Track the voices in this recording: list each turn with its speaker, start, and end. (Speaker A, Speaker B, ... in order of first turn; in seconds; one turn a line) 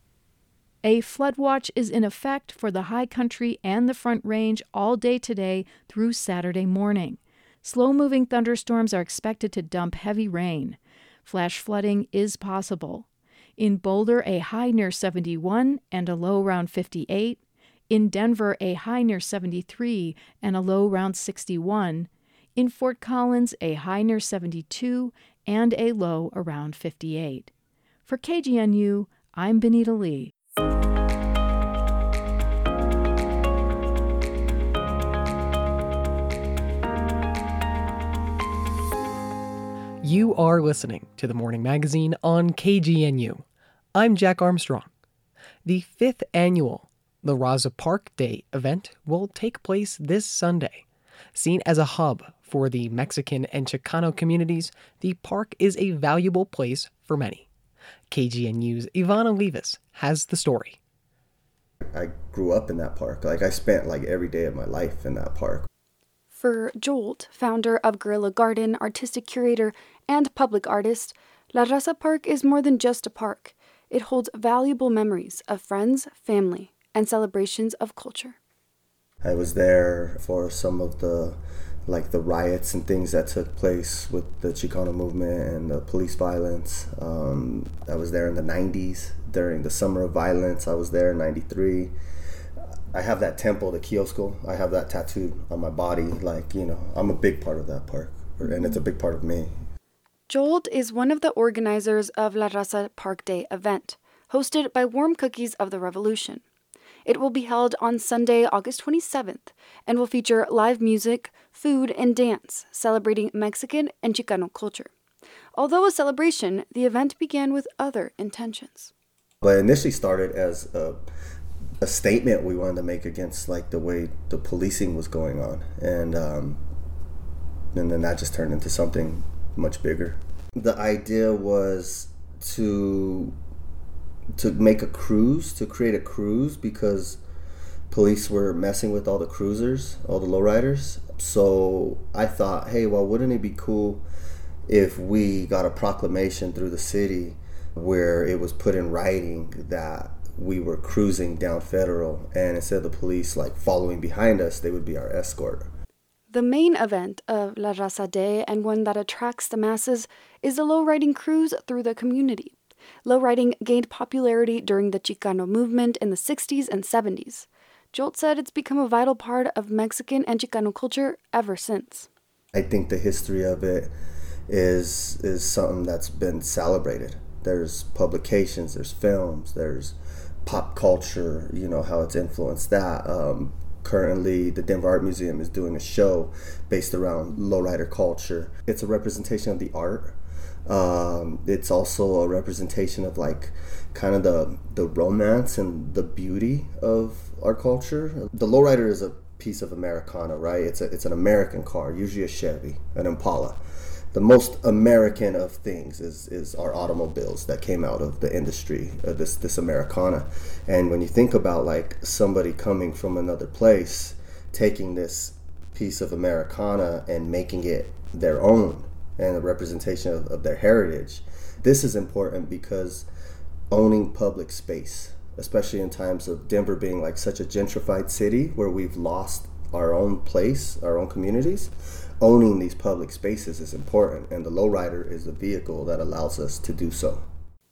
Speaker A: 0.8-13.1
Speaker A: 13.6-27.5
Speaker A: 28.1-30.3
Speaker B: 40.0-44.9
Speaker B: 45.6-57.5
Speaker B: 58.1-60.8
Speaker C: 61.8-65.7
Speaker D: 66.3-78.3
Speaker C: 79.2-91.9
Speaker C: 92.9-99.6
Speaker D: 100.3-106.4
Speaker D: 107.0-114.9
Speaker D: 115.5-118.9
Speaker C: 119.4-121.0
Speaker C: 121.8-126.6
Speaker C: 127.7-133.3
Speaker C: 134.3-137.2
Speaker C: 137.9-144.0
Speaker C: 144.7-155.7
Speaker D: 156.3-172.1
Speaker C: 172.5-173.9
Speaker C: 174.5-203.6
Speaker C: 204.1-223.1
Speaker C: 223.7-237.2